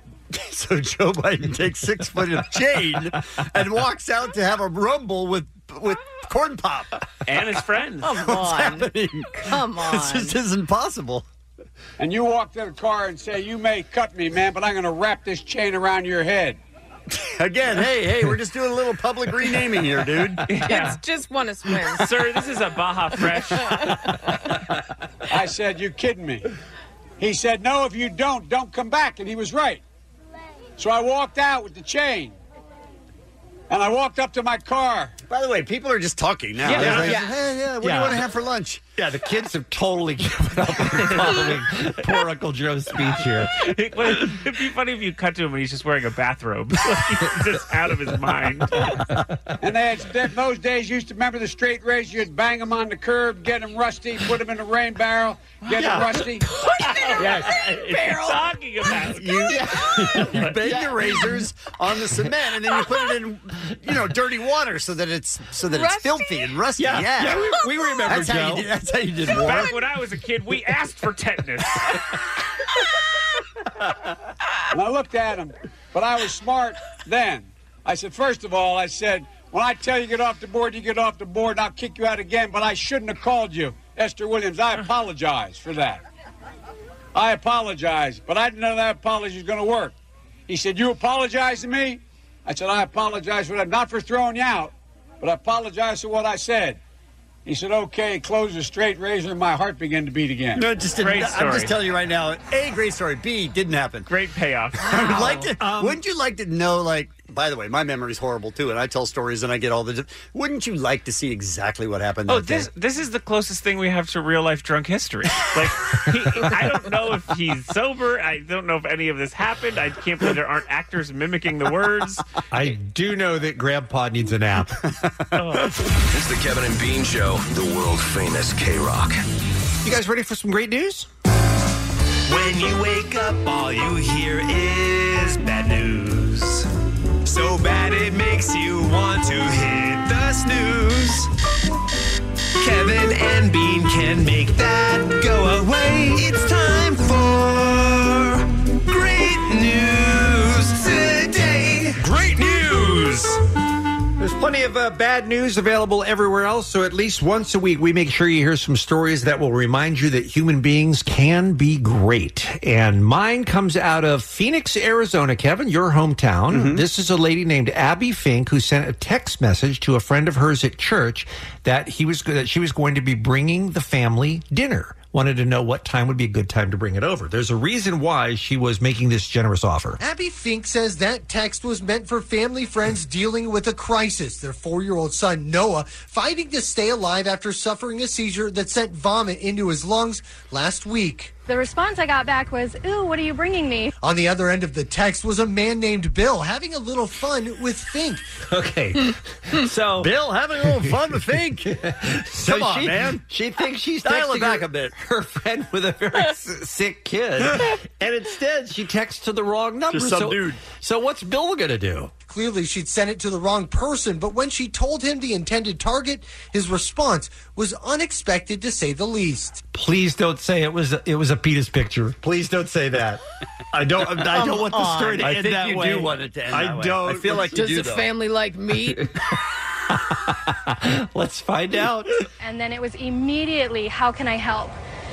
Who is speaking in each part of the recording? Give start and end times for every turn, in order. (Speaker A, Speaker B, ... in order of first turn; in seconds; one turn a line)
Speaker A: 0.3-6.9
Speaker B: 7.3-8.2
Speaker C: 8.0-10.4
Speaker A: 8.1-11.2
Speaker D: 12.0-16.6
Speaker A: 17.1-20.4
Speaker B: 20.5-21.0
Speaker C: 20.6-22.1
Speaker B: 21.9-24.1
Speaker C: 23.6-23.9
Speaker D: 25.3-26.5
Speaker D: 27.2-29.8
Speaker D: 30.8-32.4
Speaker D: 33.7-35.1
Speaker A: 35.3-38.8
Speaker B: 36.7-37.2
Speaker E: 36.7-37.3
Speaker E: 37.8-38.2
Speaker E: 39.0-43.6
Speaker B: 43.5-48.9
Speaker D: 49.6-56.5
Speaker E: 55.7-56.2
Speaker C: 56.5-58.4
Speaker B: 56.8-59.6
Speaker A: 57.2-57.9
Speaker A: 59.2-67.4
Speaker E: 59.5-60.5
Speaker B: 60.3-60.6
Speaker C: 65.7-66.5
Speaker E: 66.8-68.7
Speaker C: 67.5-68.0
Speaker A: 68.1-69.8
Speaker B: 69.3-72.0
Speaker C: 69.3-69.7
Speaker D: 74.7-86.0
Speaker D: 87.1-89.9
Speaker D: 90.5-96.8
Speaker D: 97.5-100.7
Speaker A: 100.5-104.1
Speaker B: 101.0-101.8
Speaker B: 104.1-105.5
Speaker A: 104.8-112.7
Speaker C: 104.9-105.2
Speaker E: 105.6-106.0
Speaker B: 112.3-122.7
Speaker E: 122.5-124.8
Speaker B: 125.4-125.7
Speaker F: 126.0-129.2
Speaker E: 129.8-131.1
Speaker G: 132.3-136.0
Speaker G: 137.3-141.0
Speaker G: 142.7-143.8
Speaker G: 144.7-147.8
Speaker G: 148.9-149.8
Speaker E: 154.2-180.0
Speaker A: 166.5-166.8
Speaker H: 180.0-191.3
Speaker I: 191.5-193.9
Speaker H: 194.0-198.3
Speaker E: 198.5-201.0
Speaker A: 200.0-201.7
Speaker E: 201.6-212.1
Speaker A: 202.4-203.2
Speaker A: 204.0-204.9
Speaker A: 209.9-210.6
Speaker H: 212.2-219.7
Speaker E: 219.7-223.2
Speaker E: 223.7-227.7
Speaker A: 224.1-228.1
Speaker C: 227.4-229.1
Speaker E: 229.9-232.2
Speaker I: 232.4-234.8